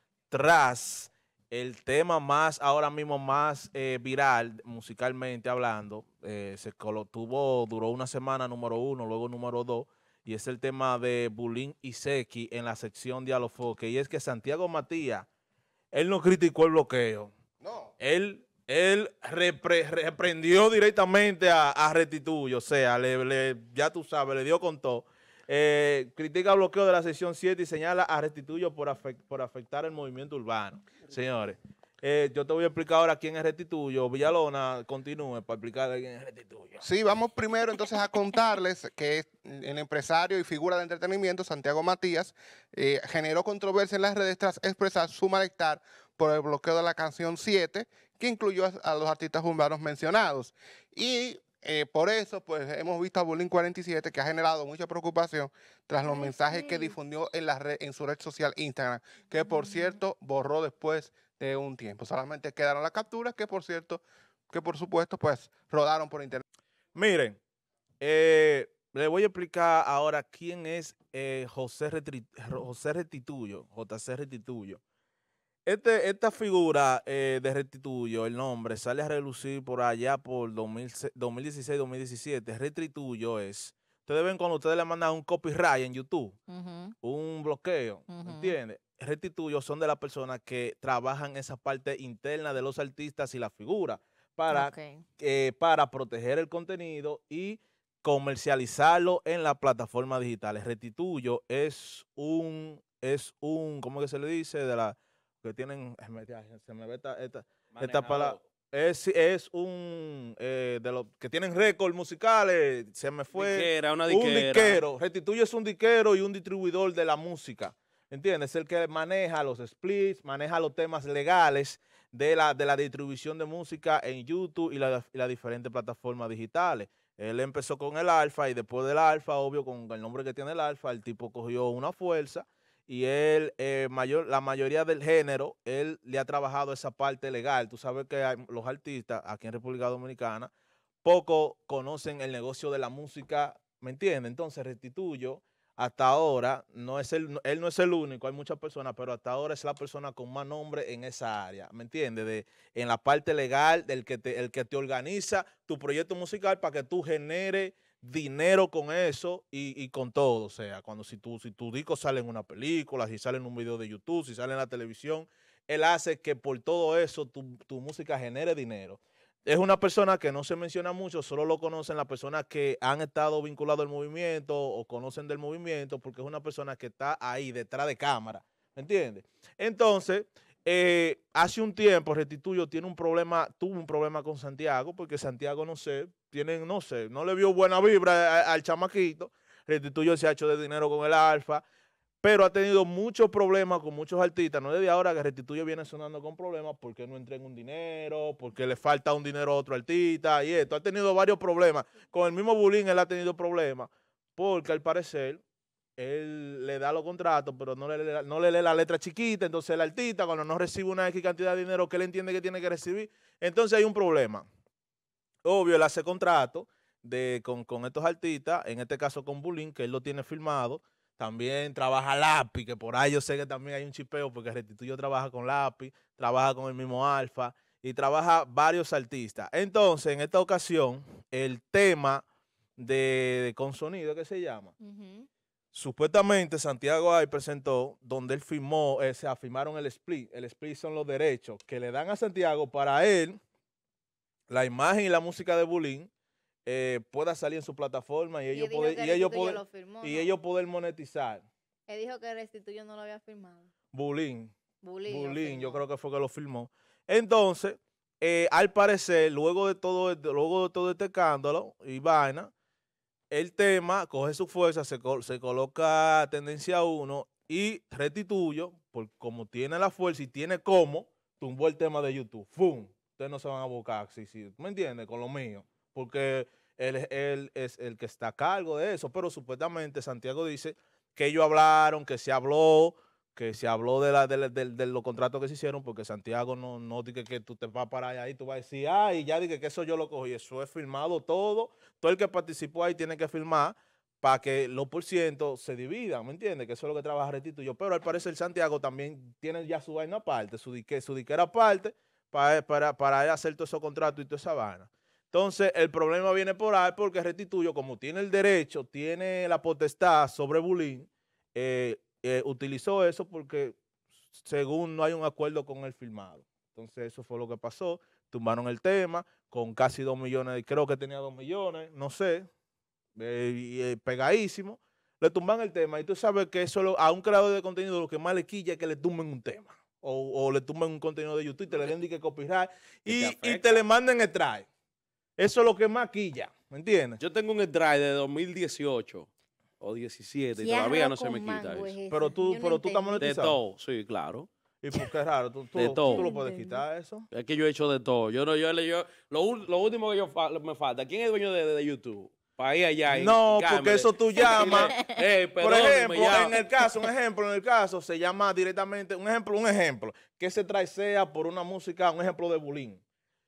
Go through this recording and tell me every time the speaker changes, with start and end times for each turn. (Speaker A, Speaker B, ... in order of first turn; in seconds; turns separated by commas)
Speaker A: 0.3-15.3, Speaker A: 15.9-17.3, Speaker B: 17.6-17.9, Speaker A: 18.0-36.8, Speaker B: 36.8-66.4, Speaker C: 56.1-56.9, Speaker C: 59.5-59.9, Speaker A: 66.9-67.4, Speaker A: 68.0-74.8, Speaker A: 75.7-86.4, Speaker C: 86.5-86.9, Speaker A: 87.0-140.5, Speaker C: 88.1-88.5, Speaker C: 94.5-95.0, Speaker D: 107.7-108.4, Speaker D: 113.3-114.8, Speaker A: 141.0-191.6, Speaker A: 192.2-205.4, Speaker A: 206.0-214.4, Speaker A: 215.4-232.2, Speaker A: 232.8-234.7, Speaker C: 234.8-235.3, Speaker A: 235.7-243.4, Speaker A: 244.5-246.1, Speaker A: 246.7-251.4, Speaker C: 248.5-250.3, Speaker C: 251.9-253.7, Speaker A: 253.9-254.5, Speaker C: 254.8-255.8, Speaker A: 255.1-262.5, Speaker A: 263.3-313.8, Speaker A: 314.4-322.5, Speaker A: 323.2-334.7, Speaker D: 333.1-333.9, Speaker A: 335.4-337.2, Speaker D: 337.2-339.3, Speaker D: 339.8-342.0, Speaker C: 340.6-343.4, Speaker A: 342.1-343.6, Speaker D: 343.2-344.5, Speaker A: 344.8-347.2, Speaker D: 345.8-346.3, Speaker C: 346.1-346.8, Speaker D: 347.3-356.7, Speaker A: 353.1-354.9, Speaker A: 355.6-363.0